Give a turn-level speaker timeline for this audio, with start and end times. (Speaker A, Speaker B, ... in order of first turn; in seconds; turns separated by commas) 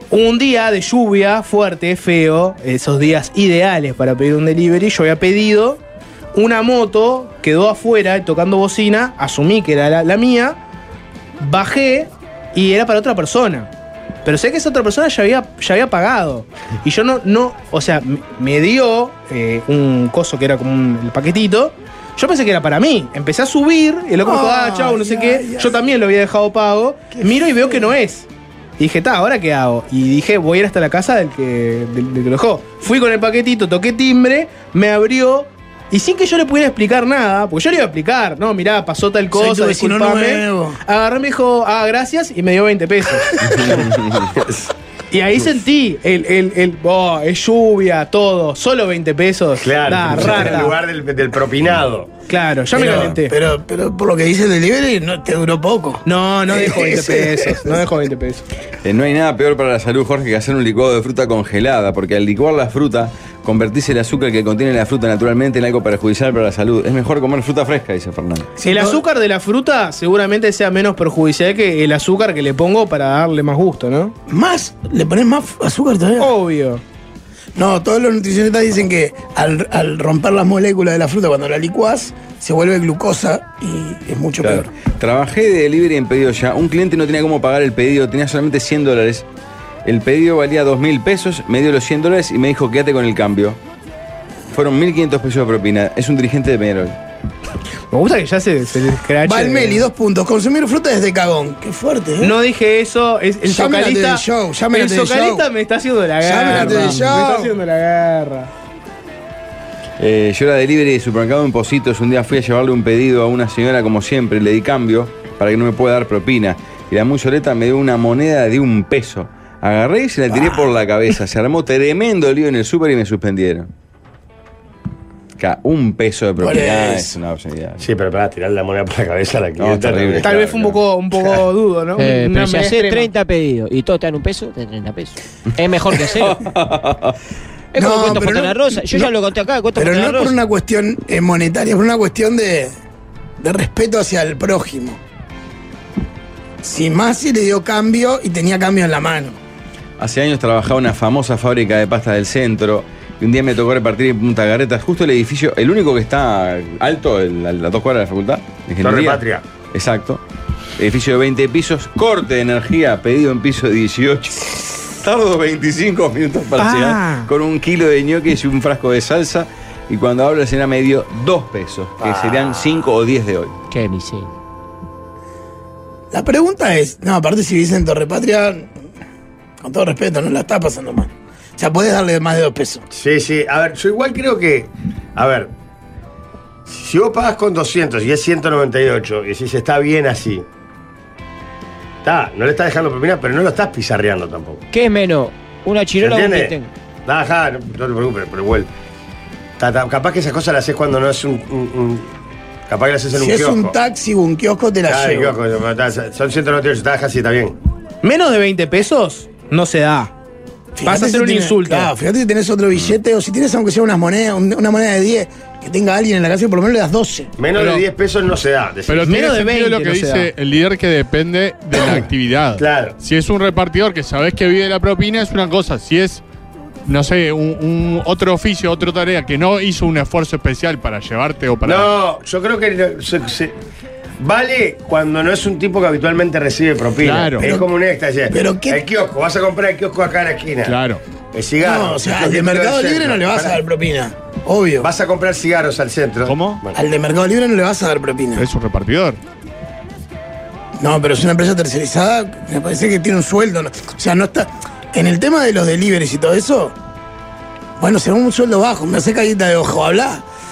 Speaker A: 0.1-5.8, Speaker A: 6.3-10.6, Speaker A: 11.4-13.7, Speaker A: 14.2-28.2, Speaker B: 24.2-25.7, Speaker B: 27.1-27.9, Speaker A: 28.8-43.7, Speaker B: 39.3-40.8, Speaker C: 43.4-44.4, Speaker B: 43.5-43.7, Speaker A: 45.1-50.8, Speaker D: 49.6-52.1, Speaker A: 52.3-53.4, Speaker B: 52.7-57.8, Speaker C: 52.9-53.1, Speaker A: 56.0-58.5, Speaker C: 58.8-68.5, Speaker B: 68.6-69.0, Speaker A: 68.6-74.1, Speaker B: 74.3-76.3, Speaker A: 76.2-76.8, Speaker B: 77.5-84.7, Speaker C: 84.4-89.2, Speaker C: 89.8-93.6, Speaker C: 94.5-97.0, Speaker A: 97.9-99.8, Speaker B: 99.2-102.3, Speaker A: 102.2-108.5, Speaker B: 103.4-105.5, Speaker B: 106.2-107.5, Speaker C: 110.0-123.7, Speaker B: 120.3-120.6, Speaker C: 125.4-127.9, Speaker B: 126.4-127.1, Speaker D: 127.8-130.3, Speaker C: 129.6-130.8, Speaker A: 130.2-133.1, Speaker E: 132.0-136.4, Speaker C: 136.1-137.2, Speaker E: 137.7-140.3, Speaker B: 137.8-139.1, Speaker B: 139.8-142.7, Speaker B: 143.4-145.0, Speaker B: 146.6-149.4, Speaker C: 150.0-160.2, Speaker D: 158.8-159.4, Speaker C: 160.8-173.5, Speaker A: 166.6-167.3, Speaker D: 172.0-172.8, Speaker E: 173.7-174.3, Speaker B: 176.1-178.7, Speaker B: 179.6-182.8, Speaker D: 182.9-185.5, Speaker D: 186.7-190.4, Speaker D: 192.0-194.6, Speaker E: 194.7-196.7, Speaker D: 196.0-196.5, Speaker D: 197.0-198.7, Speaker D: 199.6-202.1, Speaker D: 202.7-203.7, Speaker B: 203.1-205.4, Speaker D: 204.9-207.6, Speaker A: 208.0-210.1, Speaker B: 210.8-217.3, Speaker A: 210.8-211.9, Speaker D: 217.4-219.1, Speaker F: 217.5-217.8, Speaker F: 218.9-226.2, Speaker A: 219.0-220.3, Speaker D: 221.7-222.9, Speaker F: 226.8-231.9, Speaker D: 231.6-233.5, Speaker D: 234.2-240.8, Speaker F: 237.0-237.5, Speaker B: 237.4-237.7, Speaker B: 238.3-238.8, Speaker F: 240.6-241.0, Speaker D: 241.3-243.6, Speaker B: 241.6-244.9, Speaker D: 244.8-246.8, Speaker F: 246.2-246.6, Speaker B: 246.7-248.4, Speaker F: 248.4-249.2, Speaker B: 250.8-256.7, Speaker B: 257.8-260.2